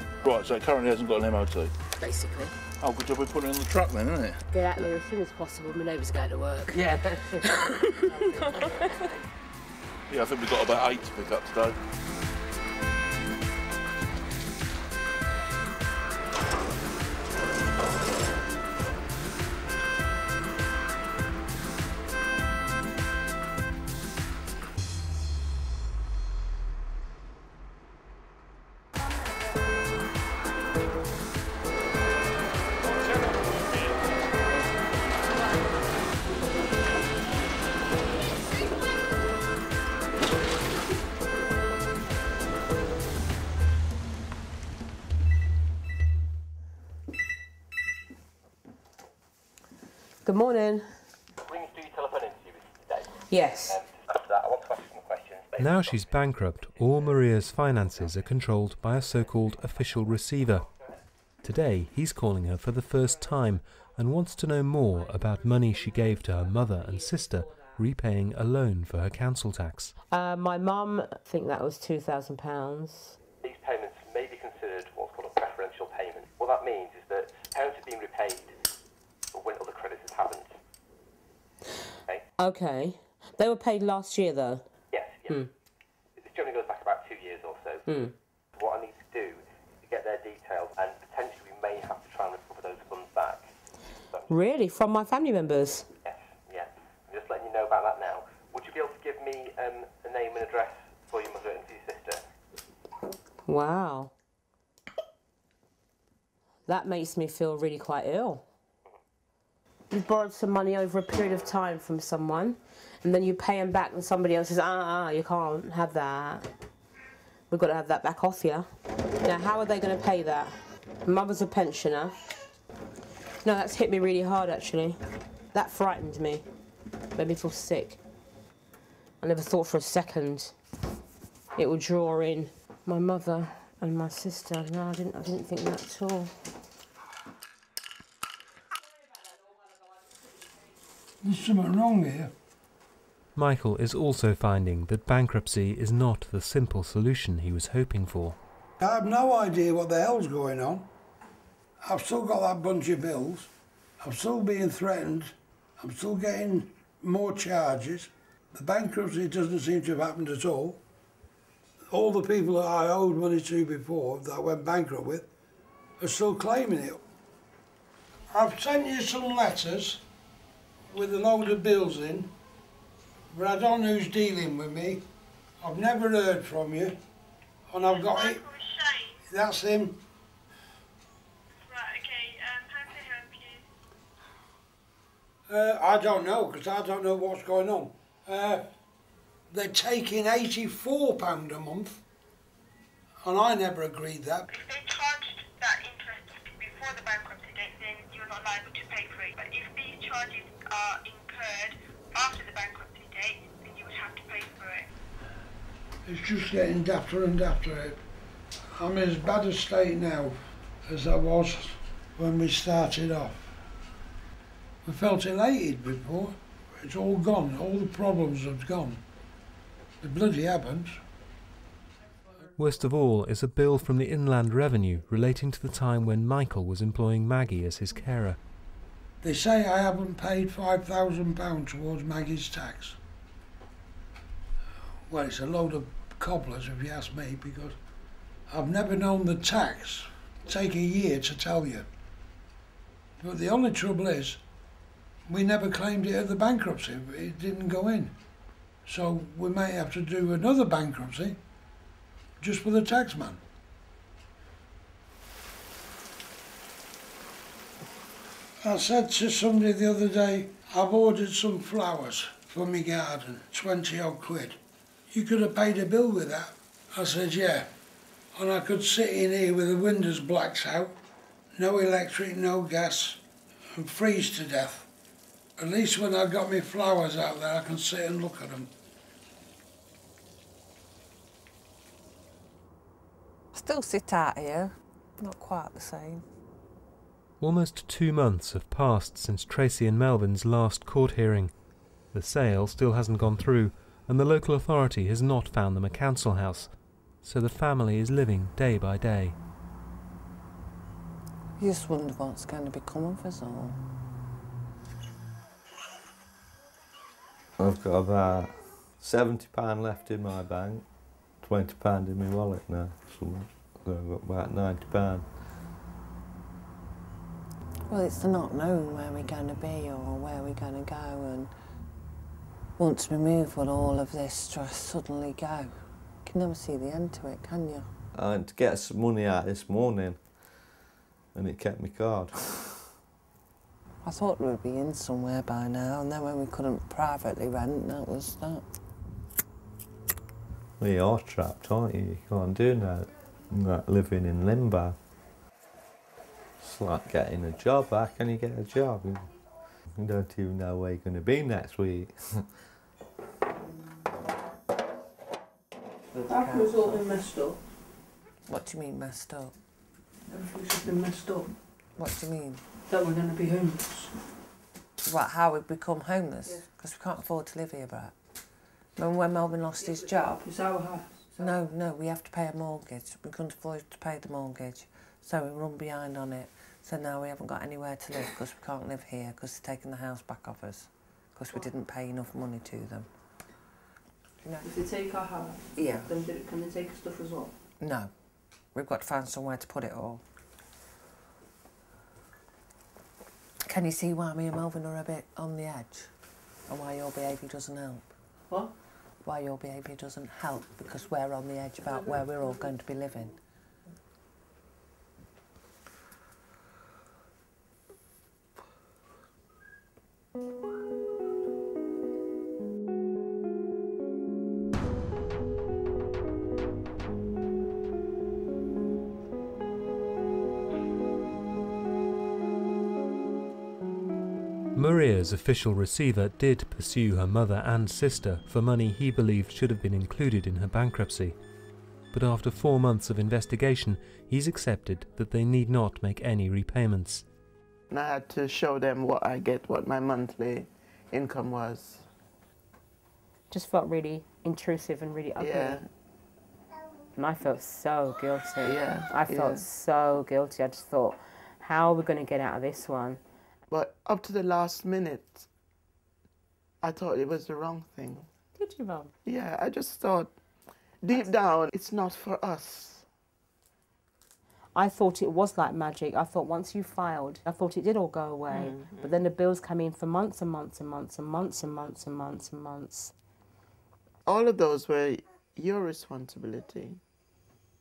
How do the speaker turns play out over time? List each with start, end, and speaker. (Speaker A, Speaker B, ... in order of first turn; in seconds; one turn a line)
Speaker A: 0.2-1.7
Speaker B: 2.0-2.5
Speaker A: 2.8-4.4
Speaker B: 4.5-9.0
Speaker C: 6.7-7.8
Speaker A: 10.1-11.8
Speaker B: 50.2-51.0
Speaker D: 51.4-53.1
Speaker B: 53.3-53.8
Speaker D: 53.7-56.0
Speaker E: 55.6-60.7
Speaker E: 61.4-69.9
Speaker B: 70.1-73.2
Speaker D: 73.4-78.5
Speaker D: 79.3-80.5
Speaker B: 82.4-84.7
Speaker D: 84.9-85.5
Speaker D: 86.2-87.8
Speaker B: 87.9-88.1
Speaker D: 88.5-93.5
Speaker D: 94.1-94.4
Speaker B: 94.3-95.9
Speaker D: 96.0-102.2
Speaker B: 103.5-104.1
Speaker B: 106.7-108.4
Speaker B: 109.9-116.5
Speaker B: 117.5-118.7
Speaker B: 119.2-122.2
Speaker B: 123.4-125.0
Speaker B: 125.5-126.4
Speaker B: 127.2-128.0
Speaker B: 129.2-130.5
Speaker B: 131.6-136.3
Speaker F: 141.2-142.3
Speaker E: 143.4-148.4
Speaker F: 148.8-150.9
Speaker F: 151.8-160.8
Speaker F: 161.9-165.3
Speaker F: 166.0-167.0
Speaker F: 168.3-170.0
Speaker F: 170.9-172.3
Speaker F: 173.3-175.1
Speaker F: 175.6-177.0
Speaker F: 177.7-178.5
Speaker G: 178.2-179.1
Speaker F: 179.3-180.0
Speaker G: 181.7-183.6
Speaker F: 185.5-188.7
Speaker F: 189.5-192.0
Speaker F: 193.2-194.5
Speaker G: 194.5-204.8
Speaker F: 206.1-208.0
Speaker F: 208.8-213.4
Speaker F: 214.8-219.0
Speaker F: 220.0-221.0
Speaker E: 222.6-228.4
Speaker F: 229.2-233.0
Speaker F: 235.1-237.8
Speaker F: 238.5-241.9
Speaker F: 243.2-244.4
Speaker F: 245.3-248.2
Speaker F: 248.9-251.4
Speaker F: 252.4-253.4
Speaker F: 258.6-264.6
Speaker F: 265.1-267.7
Speaker F: 268.3-271.0
Speaker F: 271.5-273.2
Speaker F: 273.8-274.9
Speaker F: 275.6-278.7
Speaker H: 283.5-286.2
Speaker E: 287.4-291.5
Speaker E: 292.1-296.7
Speaker E: 297.2-299.4
Speaker H: 301.6-303.8
Speaker I: 307.6-310.9
Speaker I: 311.4-315.2
Speaker H: 317.9-321.5
Speaker H: 322.8-325.7
Speaker H: 326.2-327.9
Speaker I: 328.1-330.2
Speaker I: 331.3-332.7
Speaker H: 334.0-338.7
Speaker I: 340.8-345.0
Speaker I: 346.6-349.3
Speaker I: 350.0-352.4
Speaker H: 356.1-357.1
Speaker C: 356.2-357.6
Speaker H: 358.5-359.6
Speaker C: 360.3-361.5
Speaker H: 362.0-362.6
Speaker C: 362.9-364.2
Speaker H: 365.1-368.1
Speaker H: 369.0-370.5
Speaker C: 369.8-371.6
Speaker H: 371.4-383.1
Speaker H: 384.4-384.7
Speaker C: 384.6-387.5
Speaker H: 385.8-386.1
Speaker H: 387.8-388.1
Speaker H: 388.8-390.2
Speaker H: 393.7-396.1
Speaker H: 396.7-398.1
Speaker H: 399.2-403.4
Speaker E: 424.8-431.4
Speaker E: 432.1-437.2
Speaker J: 437.9-442.1
Speaker B: 443.5-445.8
Speaker J: 445.4-445.9
Speaker B: 447.2-453.2
Speaker J: 448.6-449.6
Speaker J: 453.7-455.5
Speaker J: 456.8-458.3
Speaker B: 458.6-459.1
Speaker J: 459.2-460.4
Speaker J: 461.0-463.1
Speaker B: 464.8-473.1
Speaker J: 468.5-469.1
Speaker J: 474.3-477.0